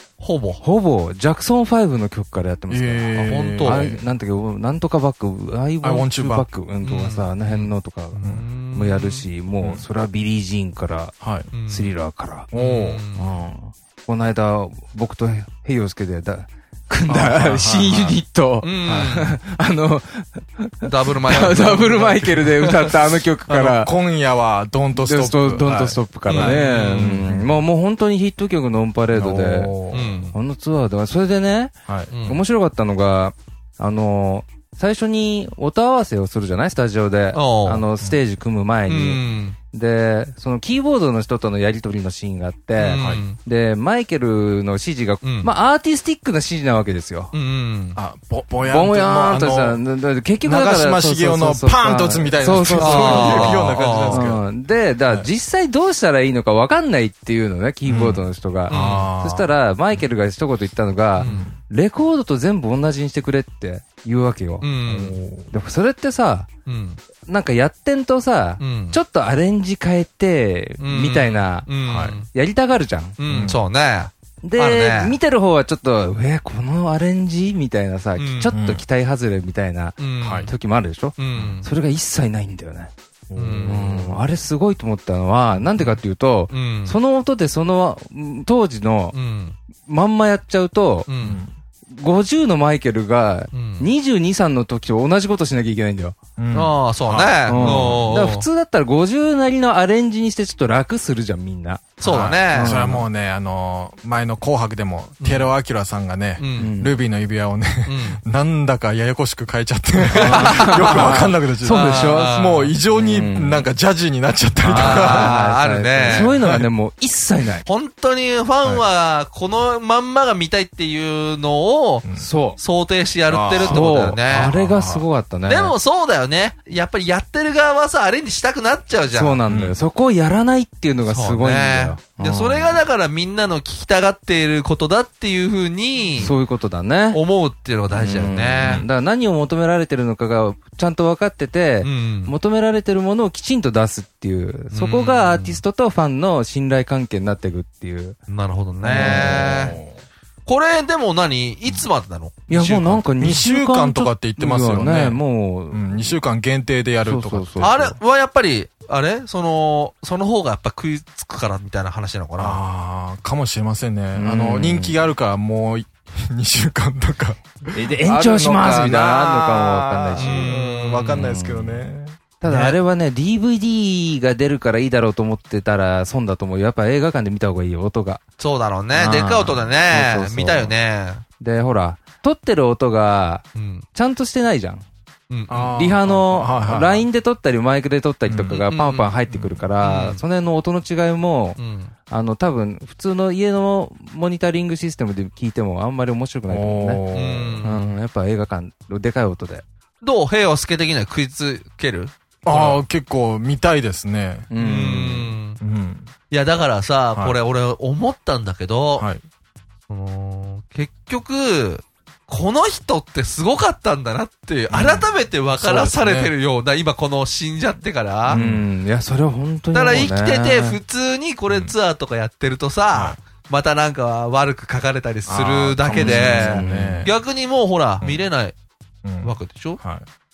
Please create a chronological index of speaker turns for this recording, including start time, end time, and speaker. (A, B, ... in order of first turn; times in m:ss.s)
0:00.2-0:00.6 A
0:00.6-0:11.2 B
0:02.7-0:04.0 C
0:03.2-0:03.9 A
0:05.8-0:06.5 C
0:06.8-0:09.2 A
0:11.2-0:11.5 C
0:11.5-0:11.9 A
0:11.7-0:12.5 B
0:12.5-0:13.0 C
0:12.5-0:13.4 A
0:13.2-0:23.9 B
0:17.1-0:18.2 C
0:18.6-0:19.4 A
0:18.8-0:19.1 C
0:20.8-0:23.0 A
0:23.5-0:27.5 C
0:24.9-0:29.8 B
0:26.2-0:27.3 A
0:29.1-0:30.2 C
0:29.9-0:30.4 A
0:30.3-0:31.7 B
0:31.9-0:32.1 C
0:32.1-0:32.4 A
0:32.3-0:47.3 B
0:37.3-0:37.9 A
0:38.8-0:39.6 A
0:42.8-0:43.4 A
0:42.9-0:43.2 C
0:45.2-0:45.5 A
0:47.3-0:48.0 A
0:47.9-0:49.8 C
0:48.6-1:04.7 B
0:50.4-0:54.5 C
0:52.7-0:54.2 A
0:57.8-0:59.5 C
0:58.7-0:59.1 A
1:01.1-1:01.5 A
1:01.2-1:01.6 C
1:04.6-1:05.1 A
1:04.8-1:05.5 C
1:05.5-1:06.5 B
1:06.6-1:07.0 A
1:07.3-1:11.7 B
1:08.6-1:09.0 A
1:10.8-1:12.3 A
1:11.8-1:12.2 C
1:12.3-1:13.5 B
1:13.2-1:15.2 A
1:13.2-1:13.6 C
1:14.4-1:22.9 B
1:18.2-1:18.5 A
1:18.5-1:18.8 C
1:20.0-1:20.5 A
1:20.2-1:20.5 C
1:21.2-1:21.7 A
1:23.3-1:23.8 C
1:23.3-1:24.2 A
1:23.6-1:29.2 B
1:25.8-1:27.0 A
1:29.1-1:29.6 A
1:29.8-1:31.1 B
1:31.0-1:31.4 A
1:31.2-1:31.5 C
1:31.9-1:36.2 B
1:33.5-1:33.9 A
1:36.4-1:38.1 C
1:36.5-1:38.5 A
1:37.5-1:43.1 B
1:42.0-1:42.8 A
1:42.0-1:55.4 C
1:45.2-1:45.5 A
1:46.4-1:46.7 A
1:46.6-1:47.0 B
1:47.8-1:48.2 A
1:50.0-1:52.8 A
1:50.1-1:53.7 B
1:54.6-1:57.6 B
1:54.7-1:56.4 A
1:56.1-1:56.7 C
1:57.6-2:02.0 A
2:02.0-2:02.3 C
2:02.2-2:02.6 B
2:02.6-2:04.5 A
2:03.3-2:05.0 C
2:03.6-2:05.8 B
2:05.4-2:09.4 A
2:09.1-2:12.8 B
2:09.5-2:09.8 C
2:11.0-2:16.4 A
2:16.2-2:17.2 B
2:17.1-2:18.8 A
2:17.9-2:28.2 B
2:21.8-2:22.3 A
2:24.7-2:25.6 A
2:28.3-2:29.8 A
2:28.8-2:29.5 B
2:29.0-2:30.0 C
2:30.4-2:33.0 A
2:32.5-2:36.2 B
2:33.2-2:38.0 C
2:37.0-2:37.8 B
2:37.6-2:42.6 A
2:42.4-2:52.3 C
2:44.1-2:45.1 B
2:47.7-2:51.8 B
2:50.1-2:51.3 A
2:52.4-2:58.2 B
2:52.4-2:52.8 A
2:58.4-3:01.2 A
2:58.9-3:00.7 B
3:01.4-3:04.8 B
3:03.5-3:03.8 A
3:05.3-3:05.8 A
3:05.5-3:07.0 C
3:05.6-3:17.0 B
3:08.3-3:09.1 A
3:09.3-3:09.6 C
3:09.8-3:10.2 A
3:11.6-3:11.9 A
3:16.5-3:17.6 C
3:17.1-3:17.9 A
3:17.6-3:19.6 B
3:20.0-3:22.8 A
3:22.4-3:24.5 C
3:24.5-3:25.4 B
3:24.6-3:25.6 A
3:25.6-3:26.1 C
3:26.3-3:29.1 A
3:27.1-3:27.4 C
3:29.0-3:29.2 C
3:29.9-3:38.4 A
3:34.7-3:35.0 C
3:35.6-3:36.3 C
3:38.2-3:38.6 C
3:38.3-3:40.8 B
3:39.7-3:48.6 A
3:41.5-3:41.7 C
3:42.9-3:43.2 C
3:45.3-3:47.2 C
3:45.9-3:47.1 B
3:48.0-3:48.2 C
3:49.0-3:50.1 C
3:49.2-3:49.8 A